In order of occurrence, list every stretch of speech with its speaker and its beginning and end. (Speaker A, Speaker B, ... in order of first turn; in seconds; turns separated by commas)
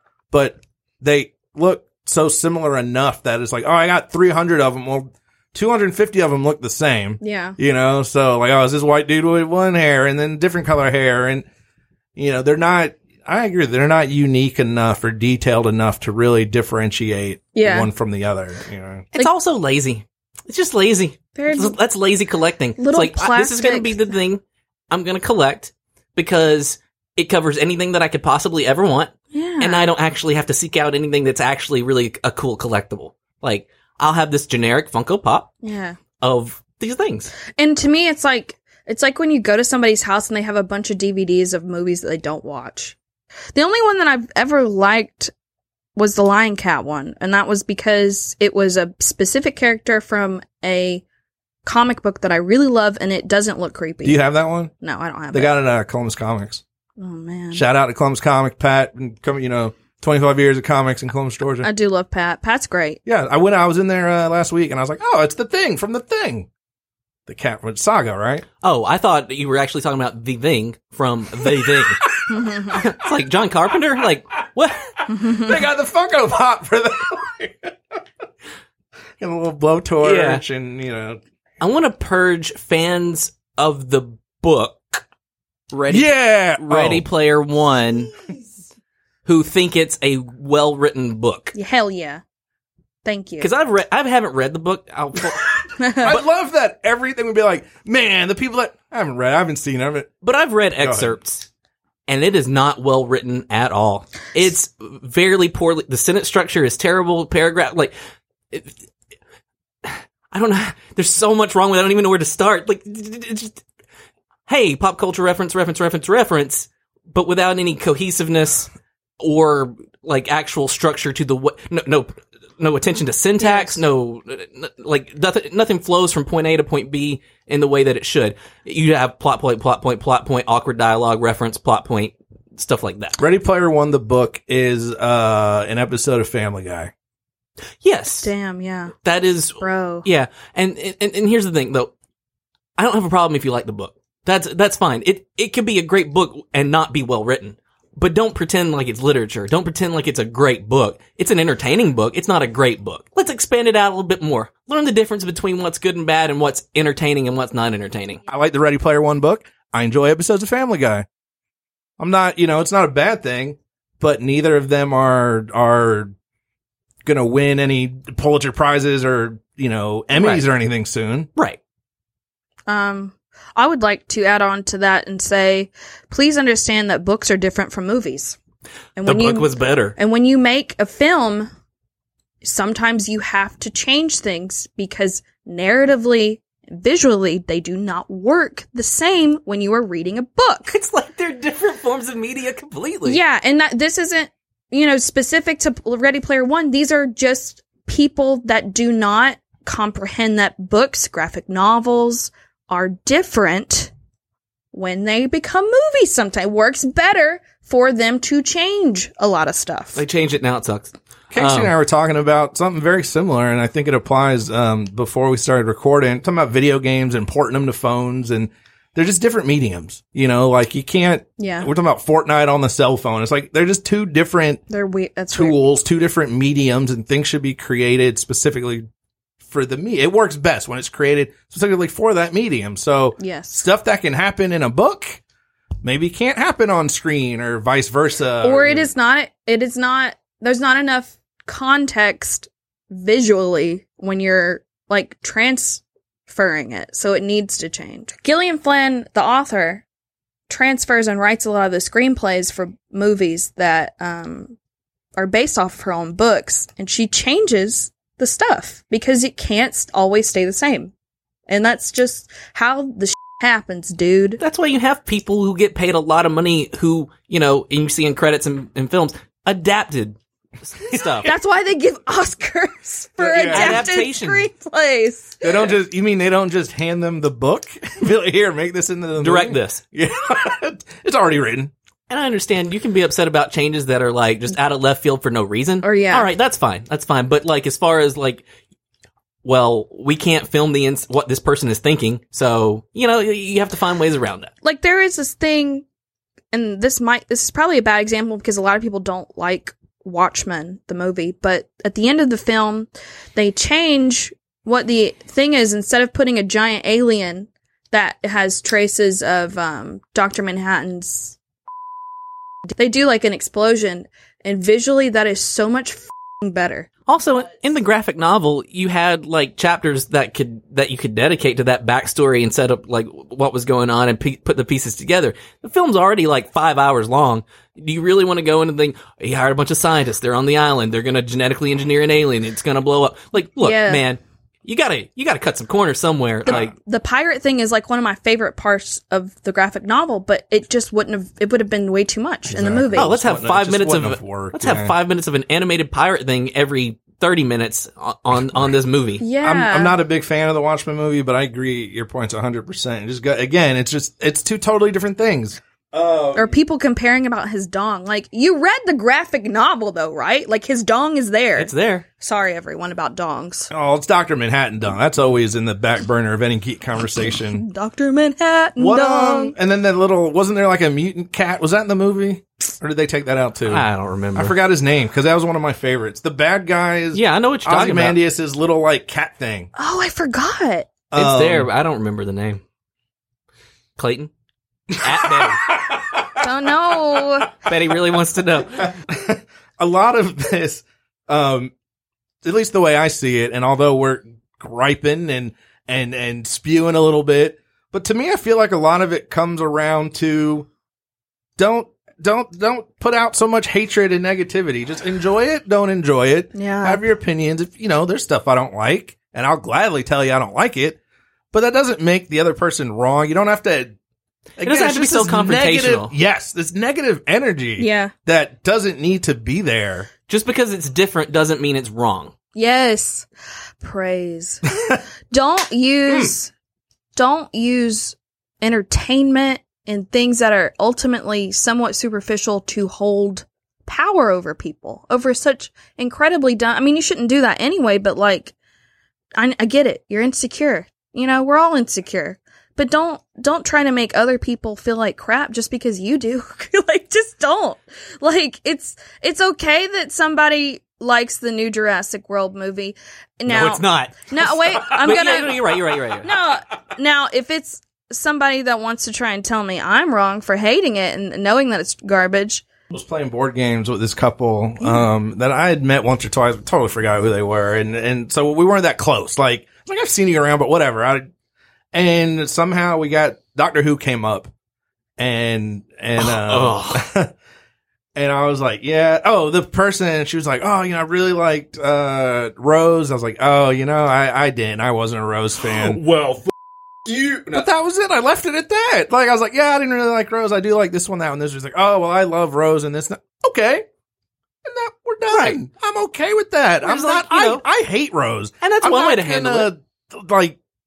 Speaker A: 0.3-11.4, Speaker B: 7.2-7.6, Speaker A: 12.2-19.1, Speaker B: 17.6-17.9, Speaker C: 19.1-35.5, Speaker B: 21.4-21.8, Speaker B: 22.8-24.1, Speaker B: 29.3-29.9, Speaker B: 35.6-36.0, Speaker C: 36.2-37.3, Speaker B: 37.5-43.0, Speaker B: 43.5-45.3, Speaker B: 46.0-51.0, Speaker B: 51.6-54.2, Speaker A: 54.0-54.7, Speaker B: 54.8-55.5, Speaker A: 55.3-56.6, Speaker B: 57.0-57.6, Speaker A: 57.5-61.7, Speaker B: 61.6-63.0, Speaker A: 63.0-66.5, Speaker A: 67.3-68.5, Speaker C: 68.6-72.0, Speaker A: 71.5-72.9, Speaker B: 72.3-72.7, Speaker C: 72.6-74.9, Speaker A: 75.0-77.7, Speaker B: 75.1-75.6, Speaker A: 79.2-81.2, Speaker C: 80.0-80.4, Speaker C: 81.6-85.0, Speaker C: 85.7-88.1, Speaker A: 85.9-87.0, Speaker C: 89.3-91.5, Speaker B: 91.5-92.2, Speaker B: 93.0-93.5, Speaker C: 93.4-96.2, Speaker B: 95.8-96.1, Speaker A: 96.0-100.1, Speaker C: 100.2-101.5, Speaker A: 100.8-101.1, Speaker C: 102.1-107.9, Speaker C: 109.8-113.6, Speaker C: 114.5-133.2, Speaker B: 123.4-123.8, Speaker A: 133.2-136.9, Speaker C: 137.8-138.3, Speaker B: 138.2-138.9, Speaker C: 139.0-141.9, Speaker B: 139.6-140.1, Speaker C: 142.8-158.2, Speaker A: 158.3-161.1, Speaker A: 162.0-166.1, Speaker A: 167.1-171.3, Speaker C: 170.2-170.4, Speaker B: 172.7-178.4, Speaker B: 179.0-181.5, Speaker C: 179.0-179.9, Speaker B: 182.4-190.7, Speaker C: 190.7-193.2, Speaker B: 193.1-203.9, Speaker B: 204.7-210.0, Speaker C: 209.9-211.7, Speaker A: 211.3-224.6, Speaker B: 221.4-221.7, Speaker B: 224.7-225.6, Speaker A: 225.3-228.9, Speaker A: 229.5-235.2, Speaker B: 233.2-233.7, Speaker A: 235.8-238.9, Speaker B: 238.4-249.8, Speaker B: 250.5-254.6, Speaker B: 255.2-260.9, Speaker B: 261.5-264.4, Speaker C: 264.4-271.3, Speaker B: 271.2-275.7, Speaker A: 273.2-273.9, Speaker C: 273.3-274.5, Speaker A: 275.4-281.7, Speaker C: 279.2-279.8, Speaker C: 282.1-288.4, Speaker B: 285.8-286.3, Speaker C: 289.4-294.5, Speaker B: 294.6-295.8, Speaker B: 296.5-311.4, Speaker B: 312.8-316.9, Speaker C: 317.1-336.7, Speaker B: 333.6-334.0, Speaker A: 336.5-336.7, Speaker B: 336.5-343.1, Speaker A: 342.5-344.9, Speaker C: 342.9-349.2, Speaker B: 349.2-349.9, Speaker A: 349.4-356.6, Speaker B: 356.3-363.7, Speaker C: 361.6-362.1, Speaker A: 363.7-367.6, Speaker B: 367.3-369.6, Speaker A: 368.8-379.7, Speaker C: 373.7-374.6, Speaker C: 377.1-378.2, Speaker B: 379.8-380.9, Speaker A: 381.1-381.7, Speaker C: 381.1-382.6, Speaker C: 384.0-384.3, Speaker A: 384.9-386.4, Speaker C: 385.0-385.7, Speaker B: 386.4-387.5, Speaker C: 387.6-388.9, Speaker A: 388.8-391.7, Speaker A: 392.4-400.7, Speaker A: 401.6-411.0, Speaker B: 406.5-407.0, Speaker A: 411.5-413.9, Speaker A: 414.6-420.1, Speaker C: 414.6-416.1, Speaker B: 417.8-418.1, Speaker C: 420.3-422.3, Speaker B: 422.6-423.3, Speaker B: 423.8-424.6, Speaker B: 425.3-426.5, Speaker B: 427.1-438.5, Speaker B: 439.4-462.6, Speaker C: 453.5-456.3, Speaker A: 462.9-471.3, Speaker A: 471.9-474.5, Speaker A: 475.2-477.3, Speaker C: 476.2-477.0, Speaker A: 478.1-486.5, Speaker A: 487.1-493.8, Speaker A: 494.6-500.6, Speaker C: 495.3-495.6, Speaker C: 496.8-497.6, Speaker C: 498.6-499.7